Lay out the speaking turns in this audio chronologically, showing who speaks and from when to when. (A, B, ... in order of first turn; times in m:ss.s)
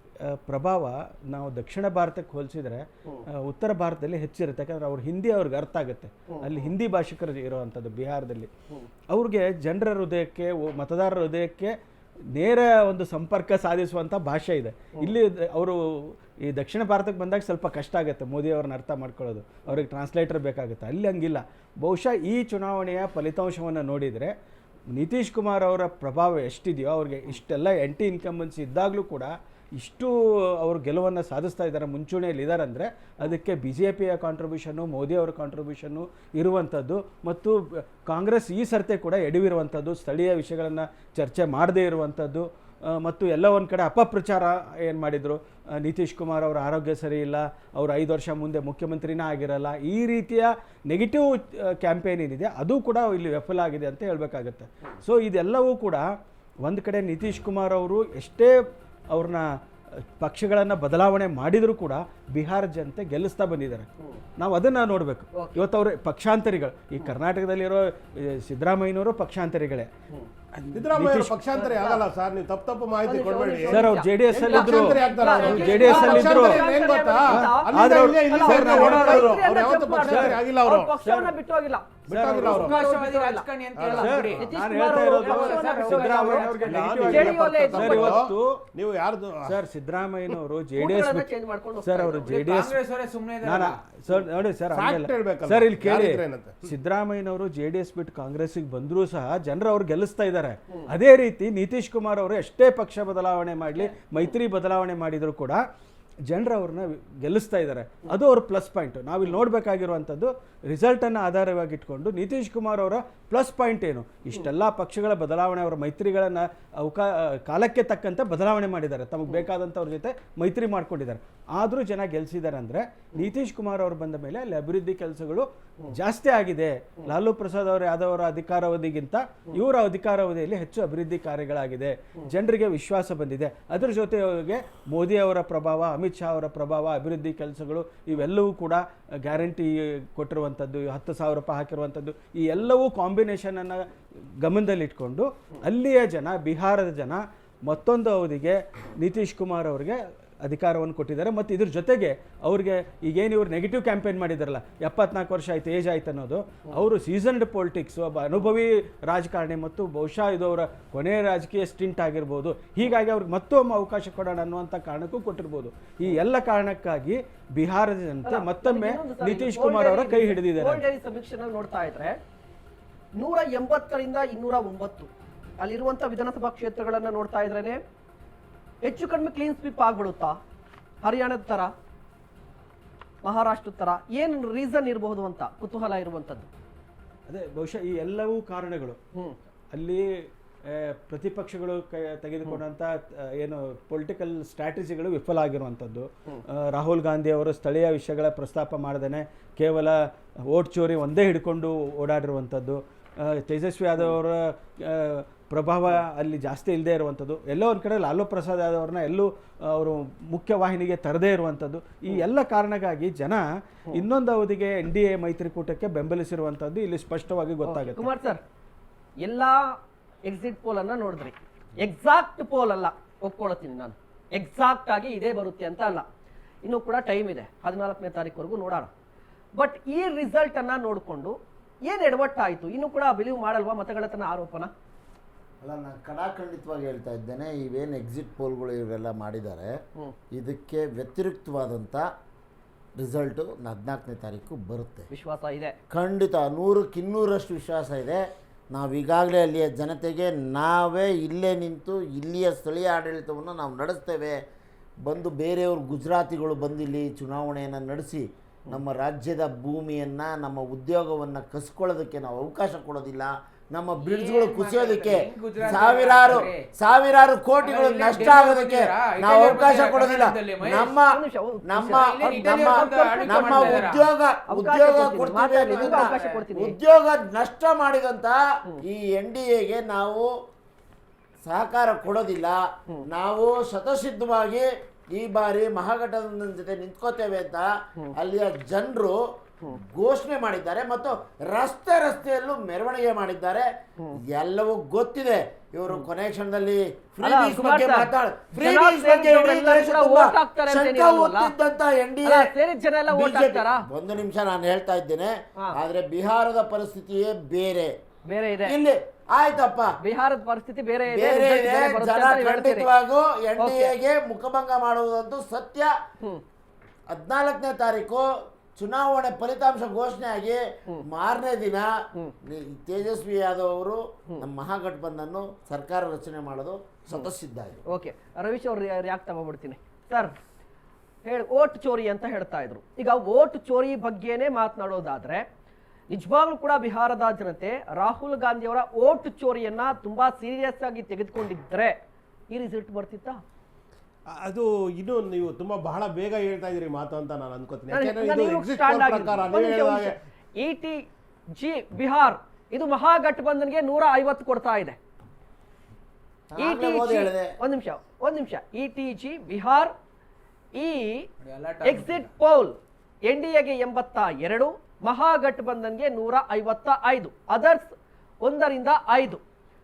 0:00.2-0:08.5 A
0:06.3-0:06.7 B
0:09.1-0:11.7 A
0:12.4-0:24.3 A
0:25.0-0:56.1 A
0:56.6-0:58.5 A
0:59.1-0:59.4 A
1:00.2-1:03.9 A
1:04.4-1:09.9 A
1:05.4-1:05.6 B
1:10.6-1:11.4 A
1:10.7-1:20.9 C
1:11.5-1:12.0 B
1:13.0-1:23.5 B
1:13.7-1:16.7 A
1:14.8-1:16.2 D
1:17.3-1:19.4 A
1:20.0-1:20.4 A
1:21.0-1:21.3 A
1:22.1-1:22.9 C
1:22.1-1:22.5 A
1:22.4-1:24.5 D
1:23.8-1:24.3 C
1:23.9-1:28.6 A
1:24.3-1:28.2 B
1:25.0-1:26.9 D
1:26.7-1:29.6 C
1:29.4-1:31.3 A
1:30.8-1:32.4 B
1:31.8-1:32.8 A
1:32.3-1:33.8 D
1:33.4-1:45.6 A
1:34.7-1:36.7 C
1:46.3-2:23.8 A
2:24.4-2:50.8 A
2:48.2-2:52.2 B
2:53.2-2:57.8 B
2:58.8-3:00.4 B
3:01.0-3:01.7 B
3:03.2-3:06.5 B
3:07.3-3:09.0 A
3:09.7-3:10.1 A
3:10.7-3:20.0 A
3:20.5-3:38.1 A
3:37.6-3:38.4 B
3:39.2-3:39.8 B
3:40.3-3:46.1 B
3:46.6-3:48.9 B
3:49.6-3:54.7 B
3:55.6-3:59.7 E
4:00.3-4:02.0 E
4:03.0-4:05.1 E
4:05.1-4:05.8 B
4:05.9-4:14.4 E
4:15.0-4:40.3 E
4:24.0-4:26.7 D
4:27.6-4:31.0 D
4:31.1-4:33.9 B
4:32.0-4:34.1 D
4:34.5-4:36.8 B
4:35.8-4:36.4 D
4:41.4-4:49.2 E
4:49.7-4:53.7 E
4:54.3-5:02.5 E
4:57.2-5:01.5 B
5:02.2-5:03.8 B
5:03.1-5:07.9 E
5:08.3-5:08.8 B
5:08.6-5:09.9 E
5:10.0-5:12.9 B
5:11.1-5:15.9 E
5:13.6-5:13.9 B
5:17.1-5:21.9 E
5:22.4-5:27.8 E
5:27.9-5:30.3 B
5:31.2-5:35.4 B
5:36.1-5:42.0 B
5:42.5-5:43.4 B
5:44.4-5:50.1 C
5:47.9-5:55.0 B
5:56.5-5:57.6 E
5:56.6-5:59.9 B
6:00.8-6:01.3 B
6:01.4-6:02.3 D
6:01.8-6:09.4 B